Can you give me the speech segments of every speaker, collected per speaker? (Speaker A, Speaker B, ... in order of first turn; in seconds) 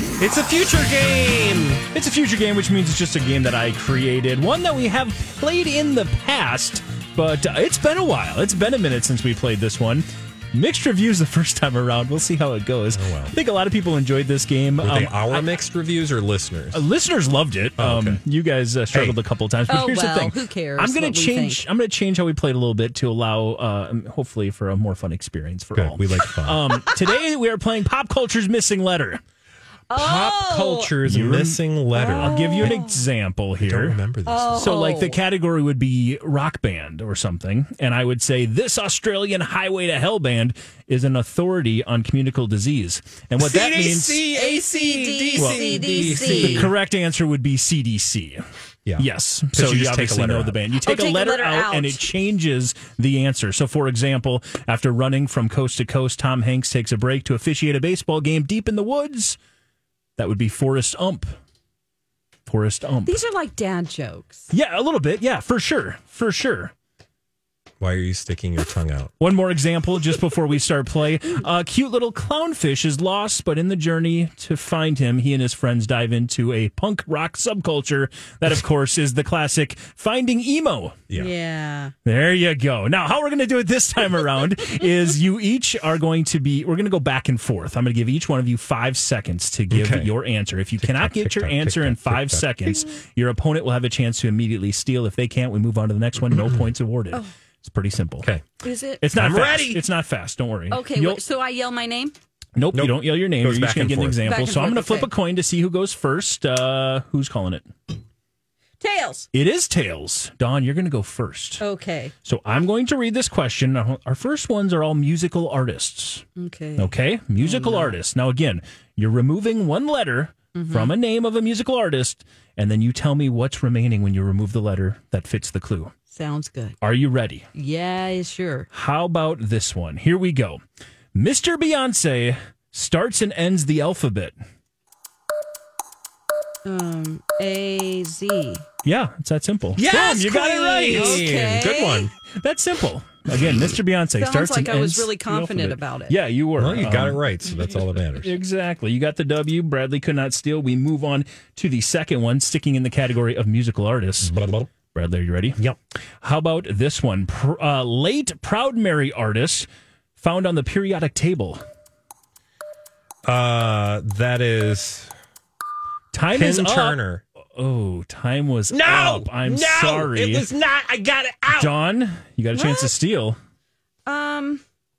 Speaker A: 0.2-1.9, 12.9-13.3, 14.8-16.8, 17.8-18.2, 18.9-19.2, 25.8-26.8, 29.9-32.8, 33.6-34.7, 43.4-46.7, 48.9-50.6, 67.8-69.2, 89.7-90.1, 90.8-92.9, 96.3-96.7, 99.1-99.8, 102.7-104.2, 139.8-142.1, 146.6-148.3, 154.2-154.7, 163.2-165.1, 166.3-167.2, 168.7-171.7
Speaker B: 1.9-15.2, 16.7-29.2, 31.1-31.6, 32.1-34.0, 34.6-44.2, 45.4-48.5, 49.0-59.4, 60.2-61.3, 62.5-63.2, 64.5-66.7, 69.2-81.0, 82.0-98.3, 99.0-101.2, 102.6-107.7, 109.3-111.6, 112.2-116.2, 116.8-125.9, 126.8-127.5, 128.7-130.6, 131.2-134.3, 138.8-141.2, 142.3-154.3, 154.9-155.6, 156.2-159.7, 160.2-161.6, 166.1-167.0, 167.6-170.5, 171.6-173.4
Speaker C: 19.7-21.6, 29.9-30.9, 31.9-33.0, 34.3-35.2, 44.3-46.7, 50.8-52.1, 63.1-64.5, 81.1-81.9, 98.6-99.0, 100.7-102.2, 104.2-105.1, 108.8-109.3, 111.6-112.1, 116.4-118.0, 120.5-120.9, 126.1-126.8, 127.5-128.7, 136.7-138.7, 140.9-142.1, 144.2-146.2, 172.5-172.9, 174.1-174.6